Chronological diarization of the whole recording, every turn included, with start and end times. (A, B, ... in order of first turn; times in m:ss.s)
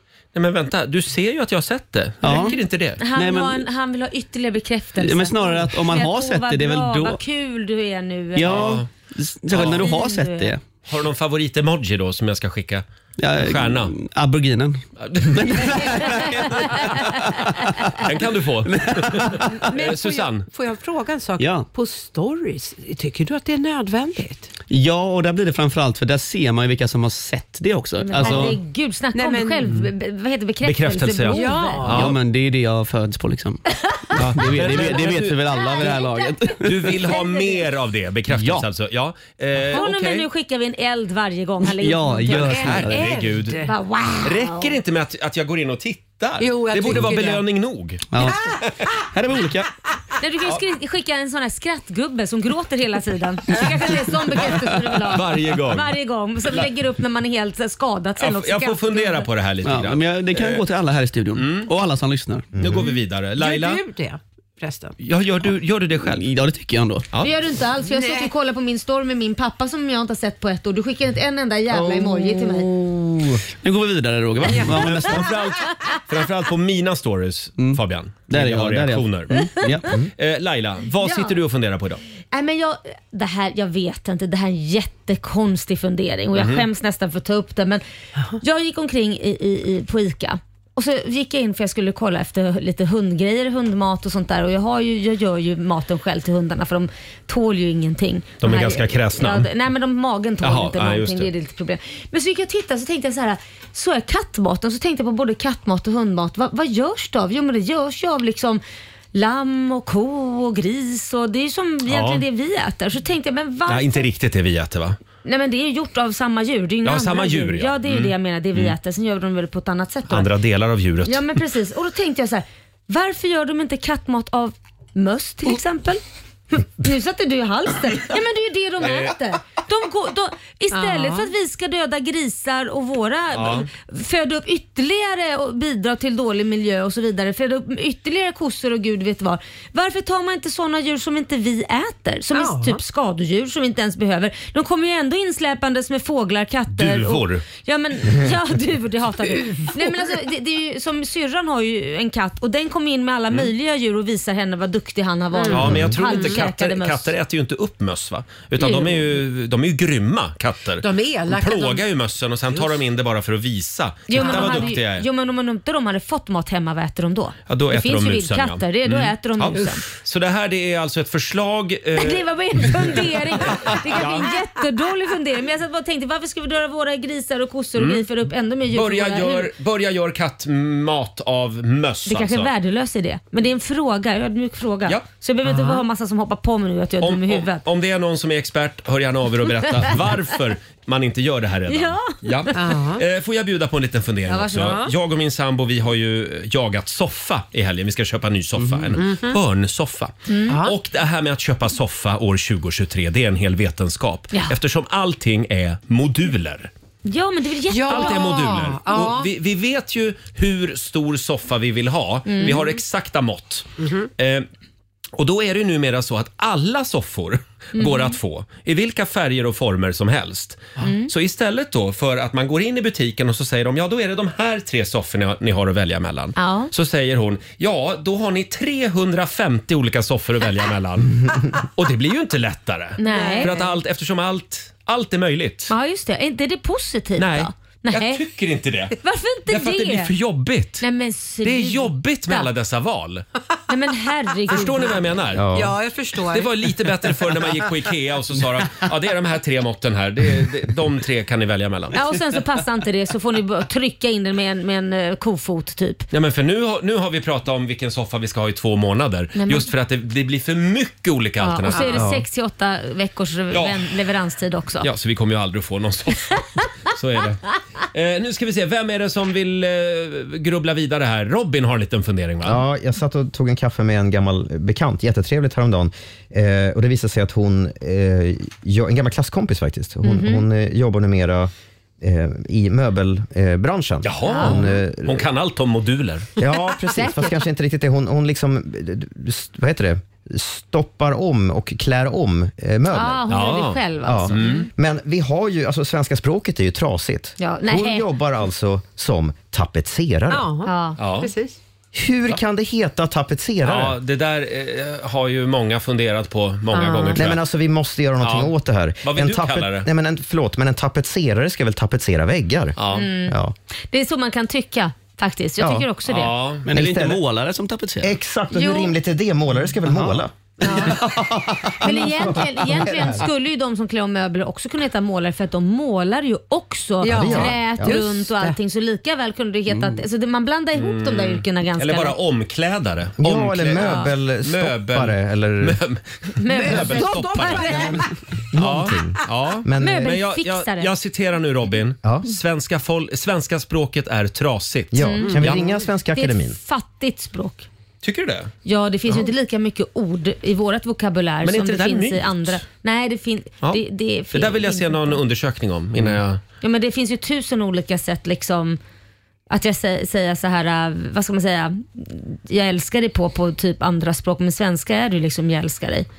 0:00.3-0:03.0 A
0:02.2-0:03.6 B
0:02.3-0:08.7 C
0:05.0-0:07.2 B
0:08.3-0:10.6 B
0:08.4-0:08.9 A
0:09.5-0:09.9 A
0:09.6-0:10.5 C
0:10.9-0:12.8 A
0:13.2-0:16.5 B
0:13.4-0:13.9 A
0:15.0-0:16.8 A
0:16.5-0:17.0 C
0:17.5-0:18.0 B
0:18.0-0:20.5 A
0:18.6-0:19.6 B
0:19.7-0:20.2 C
0:20.5-0:24.5 D
0:21.4-0:21.7 B
0:24.7-0:28.6 B
0:28.0-0:31.9 C
0:28.1-0:28.6 D
0:29.1-0:29.9 D
0:30.6-0:32.2 A
0:31.3-0:32.1 D
0:31.9-0:33.6 B
0:34.1-0:36.0 A
0:34.2-0:37.1 B
0:35.6-0:36.3 C
0:36.6-0:40.3 A
0:37.1-0:37.6 C
0:38.3-0:38.7 B
0:39.7-0:42.9 C
0:41.7-0:43.3 B
0:42.3-0:43.6 A
0:42.9-0:43.7 D
0:43.6-0:44.8 C
0:44.2-0:48.7 A
0:46.4-0:47.4 D
0:48.1-0:49.7 B
0:50.2-0:59.3 C
0:55.0-0:55.9 A
0:58.2-1:00.6 A
0:59.6-1:02.5 B
1:01.3-1:01.7 A
1:02.5-1:02.9 E
1:02.6-1:03.8 A
1:03.4-1:05.0 D
1:05.0-1:06.2 A
1:06.0-1:07.1 B
1:07.2-1:12.7 C
1:07.8-1:08.3 D
1:11.7-1:15.5 B
1:14.4-1:22.0 A
1:17.6-1:19.9 B
1:21.0-1:21.4 C
1:22.3-1:27.8 C
1:26.3-1:26.6 A
1:28.4-1:48.6 C
1:38.4-1:39.5 A
1:40.4-1:41.3 A
1:49.1-1:54.1 C
1:51.9-1:52.2 A
1:53.7-1:55.0 A
1:55.2-2:00.3 C
1:56.8-1:58.7 A
2:00.1-2:01.4 A
2:01.0-2:37.1 C
2:08.8-2:09.1 A
2:10.7-2:11.3 D
2:13.3-2:13.7 A
2:22.3-2:22.8 D
2:26.7-2:27.4 A
2:35.4-2:36.4 D
2:35.5-2:45.0 A
2:38.6-2:39.0 C
2:40.8-2:41.8 D
2:42.5-2:42.8 D
2:44.1-2:49.8 C
2:44.1-2:44.7 D
2:47.5-2:53.0 A
2:52.0-2:59.5 C
2:53.6-2:54.3 A
2:57.8-2:58.0 A
2:58.7-3:02.5 A
3:02.0-3:07.6 C
3:05.4-3:05.8 D
3:07.0-3:26.7 A
3:11.7-3:12.6 C
3:12.5-3:13.0 D
3:14.3-3:14.8 C
3:14.5-3:14.9 D
3:18.9-3:19.4 D
3:20.3-3:20.6 C
3:20.5-3:20.7 D
3:27.0-3:28.4 C
3:27.7-3:29.3 D
3:27.9-3:34.5 A
3:32.2-3:32.6 C
3:33.8-3:34.1 D
3:35.2-3:55.7 A
3:37.8-3:38.2 C
3:40.8-3:41.1 C
3:46.4-3:46.7 C
3:53.0-3:53.5 C
3:53.1-3:53.7 D
3:55.7-3:58.2 C
3:57.2-3:58.9 A
3:59.0-4:00.1 C
3:59.5-4:00.8 A
4:00.8-4:02.5 C
4:01.4-4:03.2 A
4:03.7-4:05.0 C
4:04.5-4:05.6 A
4:04.6-4:05.0 D
4:05.3-4:05.8 E
4:05.5-4:07.4 D
4:06.3-4:12.0 A
4:11.9-4:16.0 C
4:16.1-4:22.0 A
4:19.3-4:19.7 C
4:21.4-4:24.9 C
4:21.7-4:22.0 D
4:23.5-4:23.9 A
4:24.8-4:32.6 A
4:32.4-4:45.2 E
4:40.0-4:40.4 C
4:44.0-4:46.3 A
4:44.2-4:44.6 C
4:46.4-4:53.3 E
4:46.9-4:47.3 C
4:52.9-4:54.6 C
4:53.3-4:53.8 A
4:54.0-5:00.5 E
4:54.3-4:54.7 A
4:57.4-4:58.0 C
5:00.3-5:01.6 D
5:00.6-5:01.0 C
5:01.0-5:01.3 A
5:01.9-5:04.0 E
5:03.6-5:07.4 A
5:06.7-5:07.2 D
5:07.2-5:13.5 E
5:08.2-5:09.9 A
5:12.8-5:13.1 A
5:12.9-5:13.4 C
5:13.9-5:16.3 C
5:15.6-5:15.9 E
5:16.1-5:16.7 A
5:16.6-5:18.1 B
5:16.7-5:17.2 E
5:18.0-5:23.2 E
5:18.5-5:18.9 C
5:20.6-5:21.0 C
5:21.8-5:32.1 C
5:27.0-5:28.6 D
5:27.1-5:28.0 E
5:29.7-5:30.0 B
5:30.7-5:37.9 A
5:33.2-5:35.8 E
5:33.8-5:34.1 C
5:36.4-5:38.0 C
5:36.5-5:38.1 D
5:38.5-5:40.1 E
5:38.5-5:45.6 A
5:39.8-5:40.9 C
5:44.9-5:46.6 E
5:45.0-5:45.6 C
5:46.1-5:47.7 C
5:48.0-5:48.5 A
5:48.6-5:55.2 C
5:51.4-5:52.6 A
5:54.3-5:56.4 A
5:56.6-5:58.8 C
5:59.5-6:06.1 C